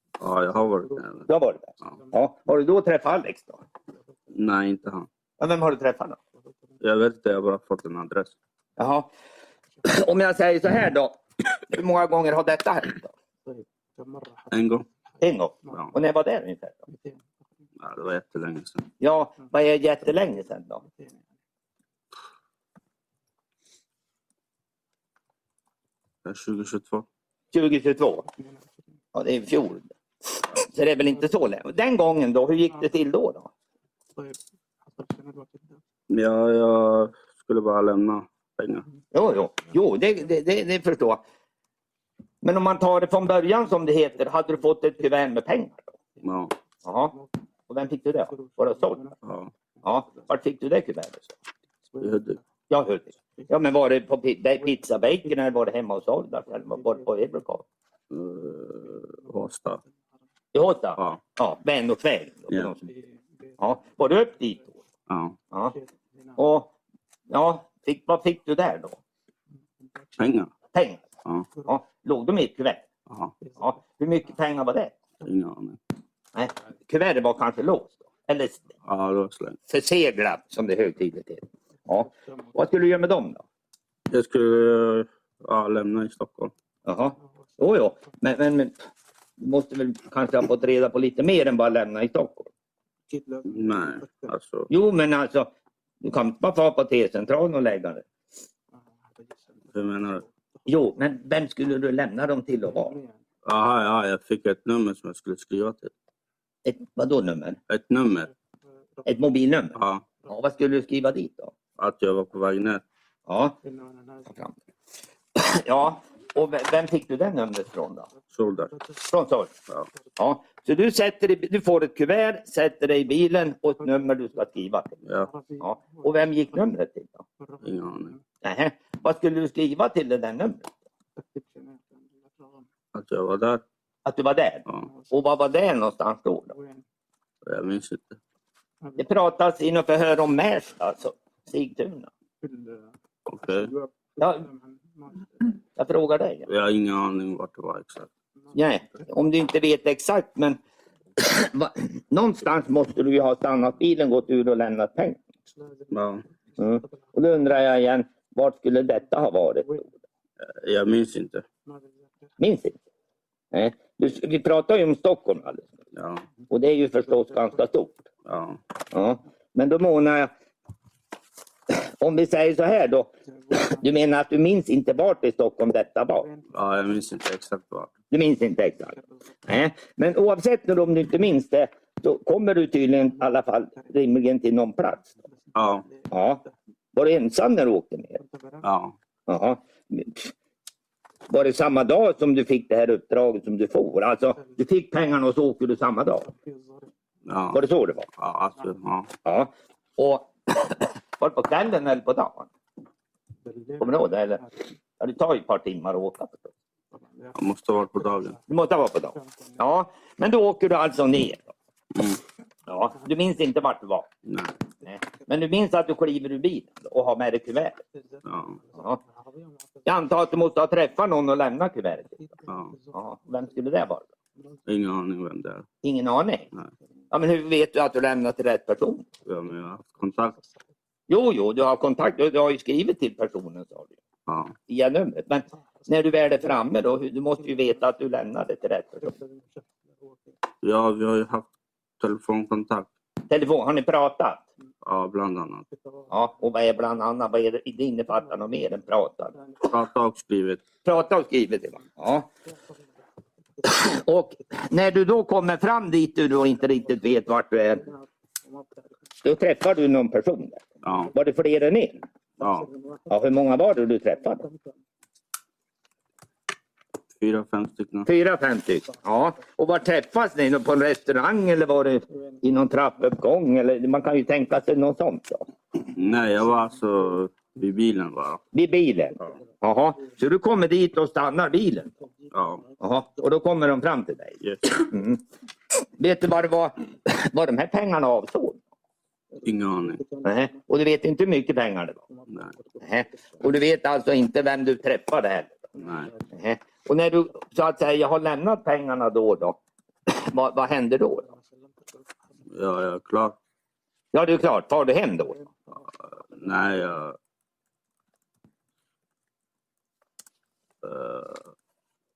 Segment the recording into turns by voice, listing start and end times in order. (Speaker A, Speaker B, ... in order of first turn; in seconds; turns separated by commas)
Speaker A: 0.2-1.3, Speaker B: 1.3-3.6, Speaker A: 4.3-5.1, Speaker B: 5.4-6.2, Speaker A: 6.8-8.3, Speaker B: 8.8-9.1, Speaker B: 9.8-13.1, Speaker A: 14.5-14.9, Speaker B: 15.2-16.8, Speaker A: 17.8-18.9, Speaker B: 19.0-20.8, Speaker A: 26.2-27.1, Speaker B: 27.5-28.3, Speaker B: 29.1-29.9, Speaker B: 30.5-33.5, Speaker A: 36.1-38.8, Speaker B: 39.1-41.2, Speaker B: 42.4-45.9, Speaker A: 46.2-46.5, Speaker B: 46.8-47.1, Speaker B: 47.7-49.1, Speaker A: 49.2-49.5, Speaker B: 49.8-51.3, Speaker A: 52.0-52.4, Speaker B: 52.7-57.6, Speaker A: 58.1-59.8, Speaker B: 60.5-62.9, Speaker B: 63.6-64.7, Speaker A: 65.1-65.4, Speaker B: 65.5-65.8, Speaker B: 66.4-66.7, Speaker B: 67.3-69.0, Speaker A: 70.2-70.5, Speaker B: 70.7-71.0, Speaker B: 71.6-72.8, Speaker A: 73.1-73.3, Speaker B: 73.5-74.9, Speaker A: 75.2-75.8, Speaker B: 76.3-78.6, Speaker A: 78.8-79.6, Speaker B: 79.7-83.4, Speaker A: 84.1-86.5, Speaker B: 86.8-88.8, Speaker B: 89.4-92.5, Speaker A: 93.4-94.7, Speaker B: 94.7-98.0, Speaker A: 99.7-100.2, Speaker B: 100.7-103.0, Speaker A: 103.4-105.9, Speaker B: 106.6-107.6, Speaker A: 107.7-108.3, Speaker B: 109.0-111.5, Speaker A: 109.7-110.0, Speaker A: 111.8-112.8, Speaker B: 113.3-113.6, Speaker B: 115.3-118.1, Speaker A: 118.3-118.7, Speaker B: 119.0-119.5, Speaker B: 120.2-125.0, Speaker A: 125.0-125.3, Speaker B: 125.6-127.2, Speaker A: 127.6-128.2, Speaker B: 128.4-130.7, Speaker A: 132.9-133.6, Speaker B: 134.1-136.5, Speaker A: 137.4-138.2, Speaker B: 139.0-142.1, Speaker A: 143.2-143.7, Speaker B: 144.2-144.5, Speaker B: 145.8-146.5, Speaker A: 146.5-148.1, Speaker B: 148.5-150.6, Speaker B: 151.2-155.2, Speaker A: 155.9-156.2, Speaker B: 156.6-159.9, Speaker A: 160.4-161.4, Speaker B: 162.4-162.8, Speaker B: 163.5-165.7, Speaker A: 165.9-166.2, Speaker B: 166.5-168.0, Speaker A: 168.2-168.6, Speaker B: 168.9-170.3, Speaker B: 171.7-176.3, Speaker A: 176.5-177.9, Speaker B: 178.1-185.1, Speaker A: 185.5-185.9, Speaker B: 186.1-188.2, Speaker A: 188.6-188.9, Speaker B: 189.3-190.3, Speaker B: 191.3-196.3, Speaker A: 197.2-197.6, Speaker B: 197.5-198.1, Speaker A: 198.2-199.1, Speaker B: 199.2-202.5, Speaker B: 203.8-204.5, Speaker B: 205.0-206.5, Speaker A: 207.3-208.4, Speaker B: 208.5-211.5, Speaker A: 211.9-212.2, Speaker B: 212.7-214.1, Speaker A: 214.2-214.6, Speaker B: 214.8-217.8, Speaker A: 218.2-218.6, Speaker B: 219.8-222.2, Speaker A: 222.5-222.7, Speaker B: 222.9-224.0, Speaker A: 224.7-225.7, Speaker B: 225.8-226.5, Speaker B: 227.1-229.1, Speaker A: 229.2-230.4, Speaker B: 231.1-233.9, Speaker A: 234.3-234.5, Speaker B: 234.7-239.2, Speaker A: 240.6-241.5, Speaker A: 242.0-242.9, Speaker B: 243.3-244.4, Speaker A: 244.8-245.6, Speaker B: 246.1-249.4, Speaker A: 249.6-250.6, Speaker B: 250.8-252.3, Speaker B: 253.6-257.9, Speaker B: 259.2-262.0, Speaker A: 260.8-261.1, Speaker A: 262.4-262.7, Speaker B: 263.1-264.5, Speaker A: 267.1-268.1, Speaker B: 268.1-275.5, Speaker A: 275.9-278.4, Speaker B: 278.5-281.9, Speaker A: 282.3-282.6, Speaker B: 282.8-285.2, Speaker B: 286.0-288.6, Speaker A: 289.4-290.0, Speaker B: 290.2-292.0, Speaker A: 292.3-292.6, Speaker B: 292.8-295.7, Speaker A: 295.8-296.1, Speaker B: 296.3-301.3, Speaker A: 302.5-303.4, Speaker B: 304.1-305.4, Speaker A: 305.8-307.1, Speaker A: 310.8-311.5